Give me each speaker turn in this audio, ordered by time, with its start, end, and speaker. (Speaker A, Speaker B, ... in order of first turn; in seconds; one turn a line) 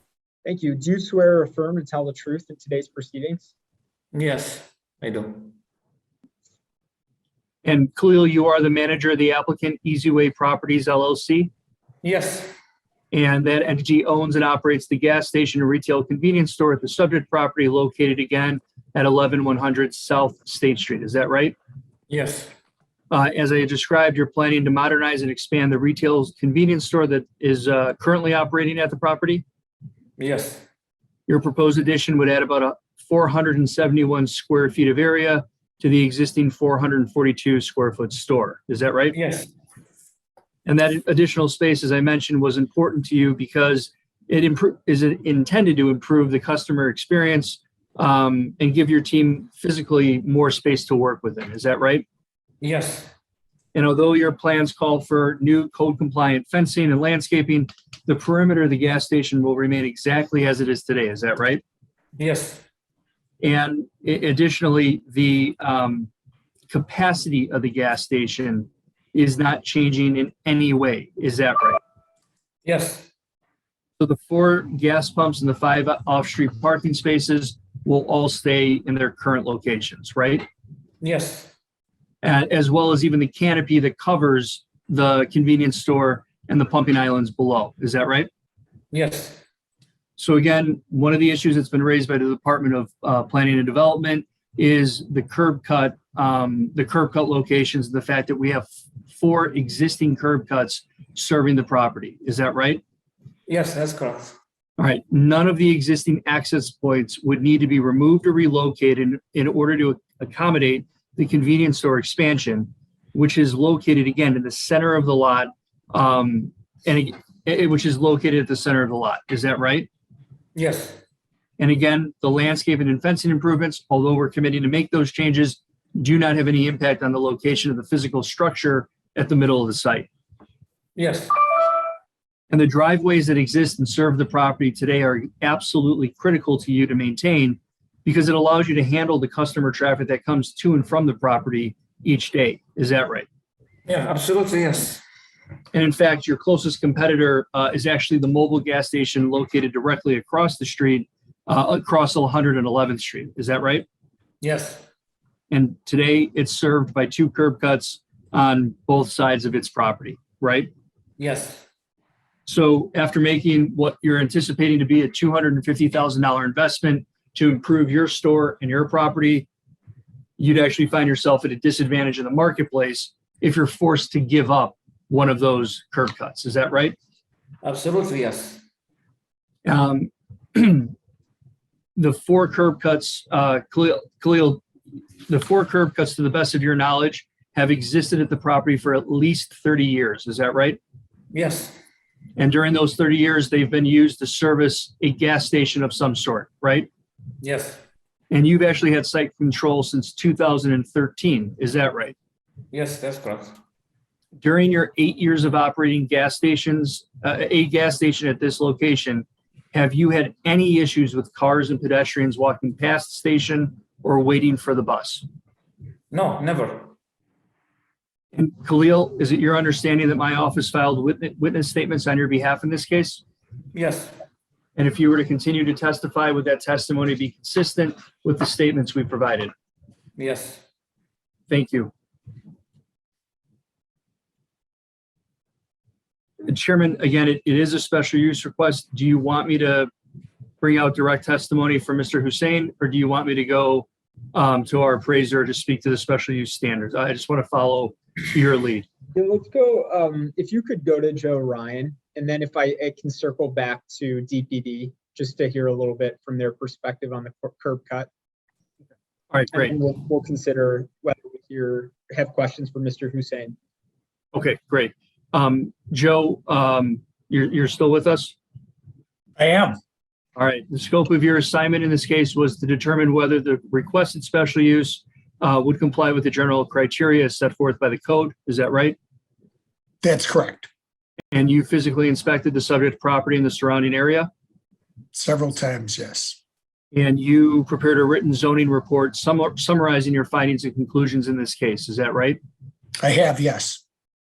Speaker A: 0.4-3.5
Speaker B: 4.1-5.5
Speaker C: 7.6-11.5
Speaker B: 12.0-12.5
Speaker C: 13.1-21.5
Speaker B: 22.1-22.5
Speaker C: 23.1-29.4
Speaker B: 30.2-30.6
Speaker C: 31.3-39.1
Speaker B: 39.1-39.5
Speaker C: 40.6-52.0
Speaker B: 52.6-53.1
Speaker C: 53.7-61.6
Speaker B: 62.2-62.6
Speaker C: 63.4-66.1
Speaker C: 66.7-71.8
Speaker B: 72.6-73.1
Speaker C: 74.0-80.5
Speaker B: 81.0-81.5
Speaker C: 82.2-88.3
Speaker B: 88.9-89.4
Speaker C: 90.2-102.8
Speaker B: 103.5-104.3
Speaker C: 104.8-119.9
Speaker B: 120.5-121.0
Speaker C: 121.6-130.1
Speaker B: 130.9-131.3
Speaker C: 132.5-143.3
Speaker B: 143.9-145.0
Speaker C: 145.7-153.8
Speaker B: 154.4-154.8
Speaker C: 155.5-160.7
Speaker B: 161.2-161.7
Speaker C: 162.4-169.5
Speaker C: 170.4-176.9
Speaker B: 177.6-178.6
Speaker C: 179.6-180.9
Speaker C: 181.9-184.6
Speaker C: 185.3-190.8
Speaker B: 191.3-191.8
Speaker C: 192.4-196.9
Speaker B: 197.4-197.8
Speaker C: 198.3-202.1
Speaker B: 202.7-203.6
Speaker C: 204.4-215.2
Speaker B: 216.1-216.9
Speaker C: 218.3-223.2
Speaker B: 223.7-224.2
Speaker C: 224.8-229.5
Speaker B: 230.2-230.6
Speaker C: 231.5-231.9
Speaker C: 236.4-239.9
Speaker C: 240.6-248.8
Speaker A: 249.1-258.1
Speaker C: 259.3-259.7
Speaker A: 259.5-263.6
Speaker C: 264.3-268.3
Speaker D: 269.4-269.8
Speaker C: 270.4-279.0
Speaker D: 280.0-280.7
Speaker C: 281.3-284.3
Speaker D: 285.1-286.4
Speaker C: 286.9-292.4
Speaker D: 293.0-293.8